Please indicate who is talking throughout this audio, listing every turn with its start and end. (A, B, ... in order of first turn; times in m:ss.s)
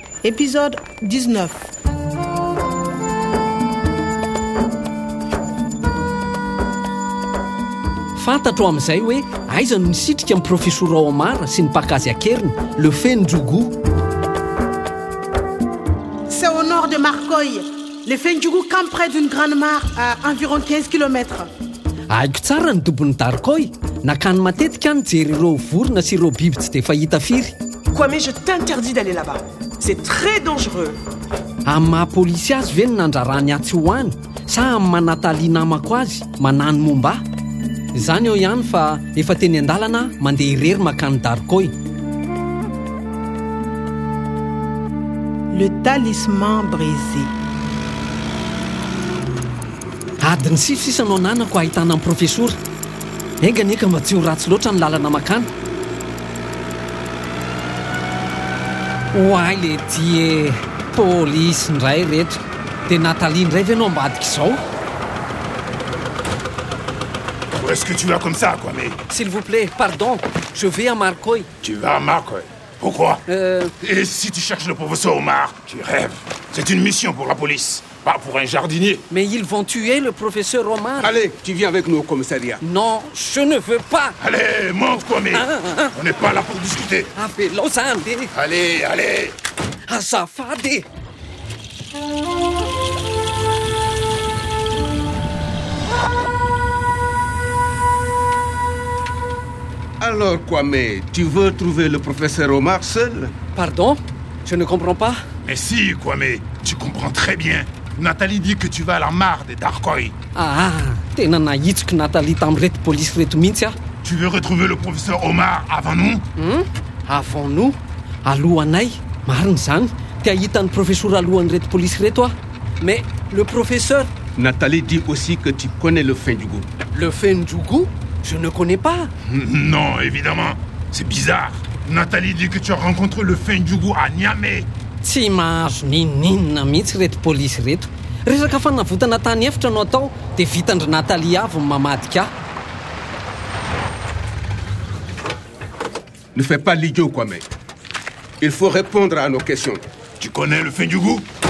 0:00.2-0:01.7 A
0:08.2-0:13.7 B
0:16.3-0:21.5 A
0:22.1-0:27.5 B
0:27.9-0:31.0 C
0:31.6-0:37.2 B
0:37.9-0:41.7 B
0:45.5-0:47.3 A
0:50.2-0:52.6 B
0:53.4-0:55.5 B
0:59.1-1:04.6 B
1:07.6-1:09.0 D
1:09.1-1:11.5 B
1:11.6-1:13.2 D
1:13.3-1:13.7 B
1:13.8-1:19.0 D
1:19.1-1:21.1 B
1:21.0-1:22.6 E
1:22.6-1:24.2 B
1:24.2-1:27.1 D
1:25.3-1:26.0 B
1:27.1-1:28.3 B
1:28.3-1:29.4 D
1:29.9-1:30.9 B
1:40.0-1:43.3 E
1:43.5-1:45.2 B
1:45.4-1:50.1 D
1:50.3-1:53.8 B
1:54.0-1:56.2 D
1:56.4-2:04.1 B
2:04.4-2:06.6 E
2:06.9-2:09.1 B
2:09.2-2:14.7 D
2:15.0-2:22.3 B
2:26.3-2:27.4 E
2:28.4-2:29.8 E
2:30.2-2:31.2 D